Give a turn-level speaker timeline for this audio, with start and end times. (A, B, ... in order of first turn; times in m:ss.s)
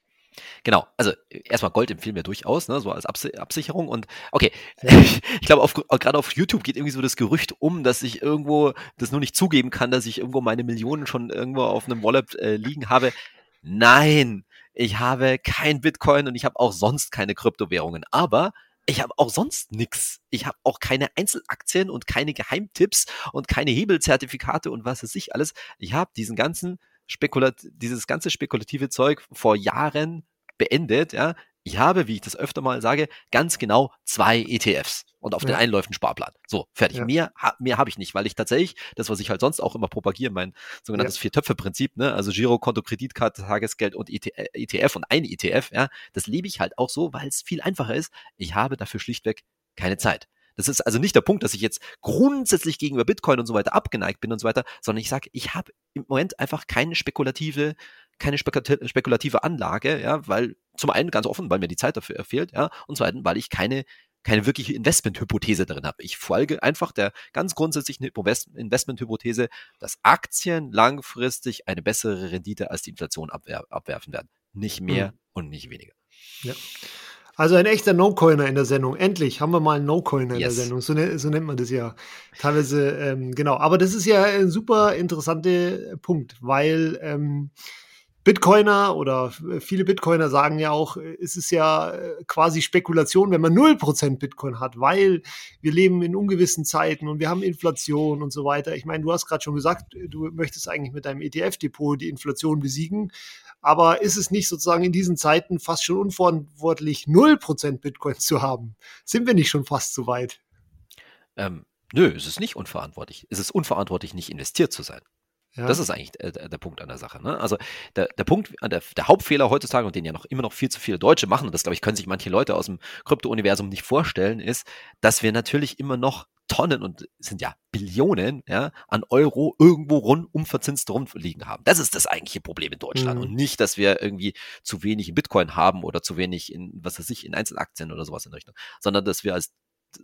0:00.6-1:15.9 A
1:17.4-1:27.5 B
1:20.3-1:20.7 A
1:28.2-1:43.1 B
1:43.6-1:50.4 B
1:51.4-1:55.0 A
1:55.6-1:55.8 B
1:55.6-2:19.5 A
2:12.9-2:13.3 B